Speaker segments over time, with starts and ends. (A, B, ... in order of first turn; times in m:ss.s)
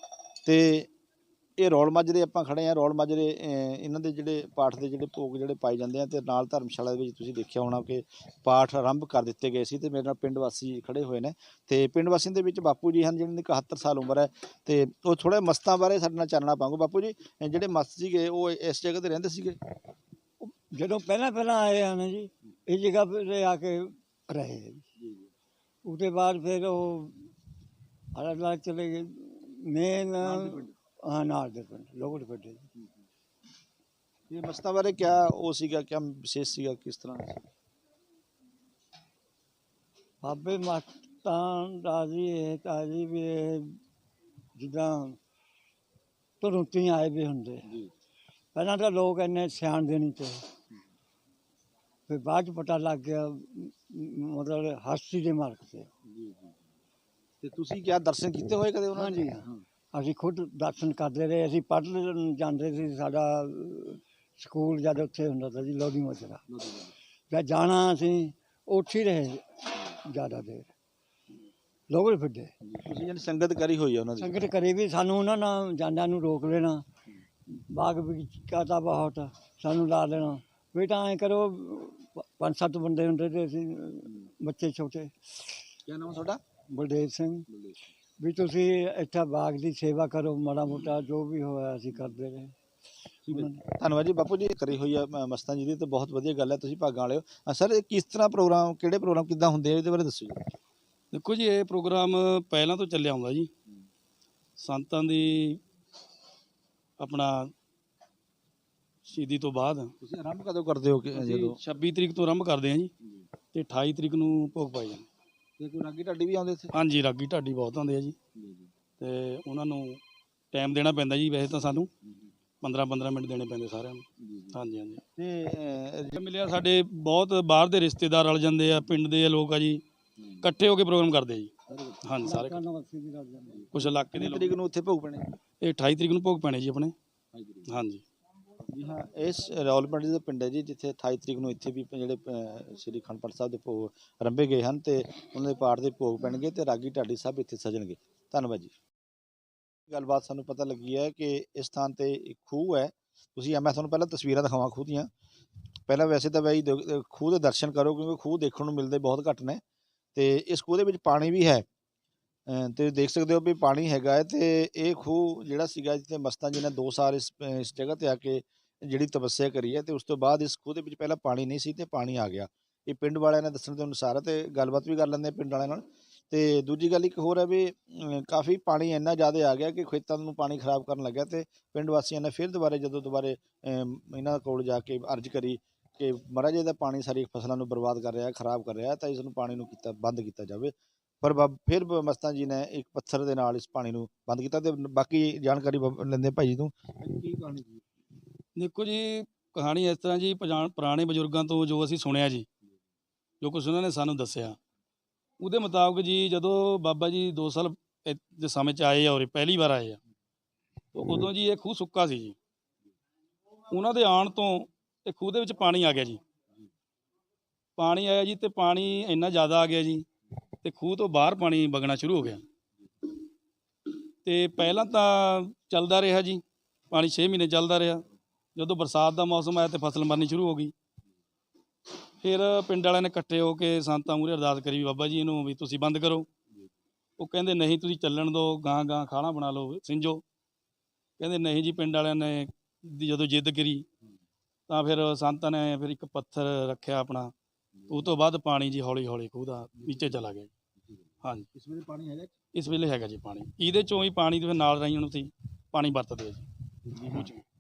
0:00.4-0:00.9 A
0:01.6-0:19.6 A
0:20.4-0:24.9 B
0:25.8-0:27.3 B
0:28.1-0:32.7 B
0:30.2-0:30.7 A
0:34.3-0:37.4 A
0:40.2-0:43.8 B
0:44.6-0:45.2 B
0:46.4-0:47.7 B
0:48.6-0:50.5 B
0:52.1-0:55.9 B
0:57.4-0:59.3 A
0:58.9-1:06.5 B
1:06.6-1:06.9 A
1:07.3-1:10.7 B
1:11.9-1:12.5 B
1:12.7-1:14.4 A
1:14.2-1:16.8 B
1:17.7-1:25.2 B
1:25.9-1:26.4 A
1:26.7-1:27.5 B
1:28.2-1:32.6 B
1:33.3-1:33.6 B
1:33.3-1:40.5 A
1:41.1-1:43.5 C
1:44.6-1:45.6 C
1:47.0-1:47.5 C
1:49.1-1:49.9 C
1:50.0-1:51.6 A
1:51.1-1:52.9 C
1:53.5-1:55.1 C
1:55.6-1:56.7 A
1:56.7-1:58.2 C
1:59.0-2:00.0 C
2:00.5-2:01.9 C
2:02.6-2:05.0 C
2:05.2-2:06.2 A
2:06.2-2:09.8 C
2:10.4-2:12.6 C
2:11.7-2:12.0 A
2:12.2-2:13.8 B
2:13.7-2:14.6 C
2:14.1-2:15.3 A
2:15.6-2:16.9 C
2:17.7-2:18.0 C
2:18.7-2:28.7 A
2:29.9-2:35.1 A
2:35.9-2:39.6 A
2:40.2-2:41.7 A
2:42.5-3:17.8 A
3:18.6-3:22.5 C
3:23.4-3:24.6 C
3:25.4-3:30.0 C
3:30.9-3:32.4 C
3:33.7-3:36.2 C
3:37.8-3:40.1 C
3:40.6-3:42.4 C
3:44.2-3:48.0 C
3:48.6-3:50.7 C
3:52.2-3:56.3 C
3:57.2-4:00.2 C
4:01.2-4:03.9 C
4:04.7-4:07.3 C
4:07.9-4:10.5 C
4:11.5-4:12.3 A
4:12.5-4:17.4 C
4:16.9-4:17.3 A